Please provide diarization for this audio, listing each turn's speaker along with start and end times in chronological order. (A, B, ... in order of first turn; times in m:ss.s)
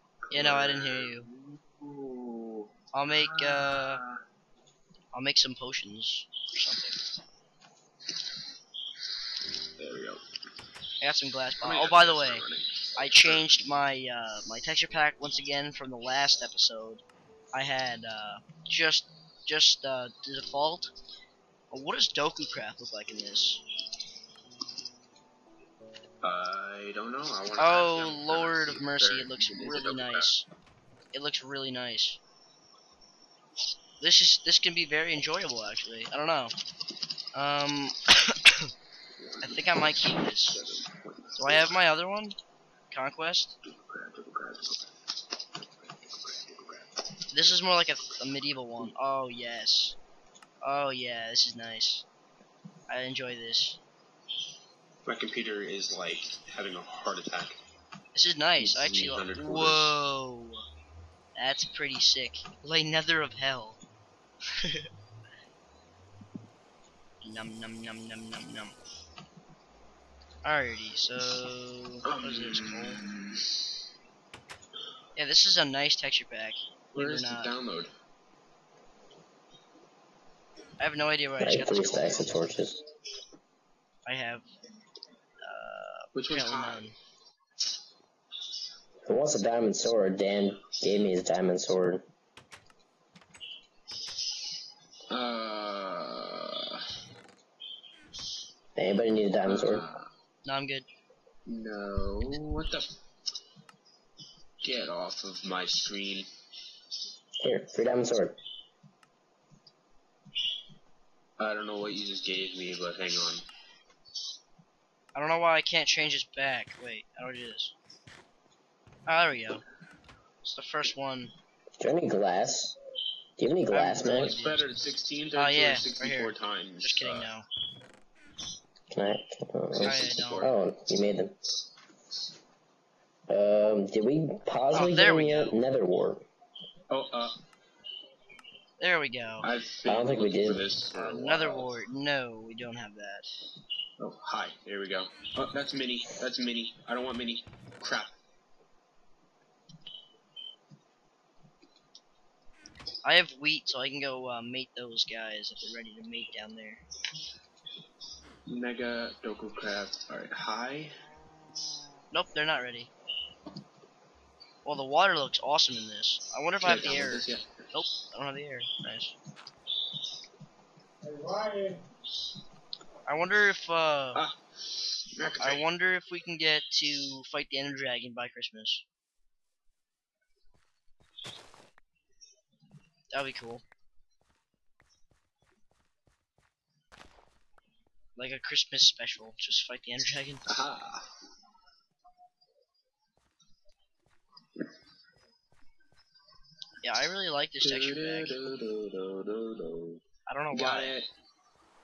0:00.2-0:04.2 A
0:00.3-0:01.3 B
0:02.9-0:04.0 B
0:05.1-0:07.0 B
0:09.8-0:10.2 A
0:11.0-0:20.9 B
0:11.6-0:13.6 A
0:21.7-0:23.6 B
0:26.2-0:30.3 A
0:27.6-0:30.5 B
0:31.1-0:32.2 B
0:34.0-0:36.5 B
0:37.3-0:38.7 B
0:39.2-0:41.8 A
0:39.4-0:40.6 B
0:41.4-0:42.4 B
0:42.9-0:43.5 B
0:43.6-0:44.9 A
0:45.8-0:47.8 A
0:47.3-0:50.0 B
0:50.6-0:52.0 B
0:52.9-0:53.8 B
0:55.0-0:57.6 A
0:58.1-1:00.6 B
0:58.6-1:00.0 A
1:01.3-1:03.8 B
1:04.6-1:04.9 B
1:07.2-1:08.7 B
1:10.4-1:13.0 B
1:12.0-1:13.5 A
1:15.2-1:17.6 B
1:16.9-1:17.9 A
1:20.8-1:22.5 B
1:21.4-1:22.8 C
1:24.0-1:24.4 B
1:25.4-1:26.9 B
1:26.1-1:26.9 A
1:29.0-1:32.0 C
1:35.1-1:36.8 A
1:38.8-1:39.8 C
1:39.4-1:40.1 A
1:40.4-1:40.9 B
1:41.4-1:42.9 A
1:44.6-1:46.3 A
1:47.4-1:48.4 C
1:51.4-1:53.4 A
1:55.1-1:57.7 B
1:59.1-1:59.6 B
2:00.4-2:01.3 B
2:01.8-2:02.7 C
2:03.4-2:04.4 C
2:03.7-2:04.7 B
2:04.0-2:07.3 A
2:05.3-2:07.5 B
2:08.9-2:11.4 C
2:09.7-2:10.6 A
2:09.8-2:10.5 B
2:13.3-2:16.2 C
2:14.7-2:15.6 B
2:16.9-2:17.4 A
2:18.8-2:19.5 B
2:19.4-2:21.7 A
2:19.8-2:20.7 C
2:20.9-2:23.3 B
2:24.0-2:28.1 A
2:33.0-2:36.8 B
2:38.4-2:40.9 A
2:42.1-2:42.9 B
2:44.6-2:49.1 B
2:46.6-2:47.6 A
2:53.0-2:54.2 B
2:54.1-2:55.6 A
2:55.4-2:58.8 B
3:03.1-3:03.6 B
3:08.2-3:10.5 B
3:10.5-3:11.1 A
3:16.8-3:18.4 B
3:17.6-3:21.1 A
3:20.3-3:21.0 B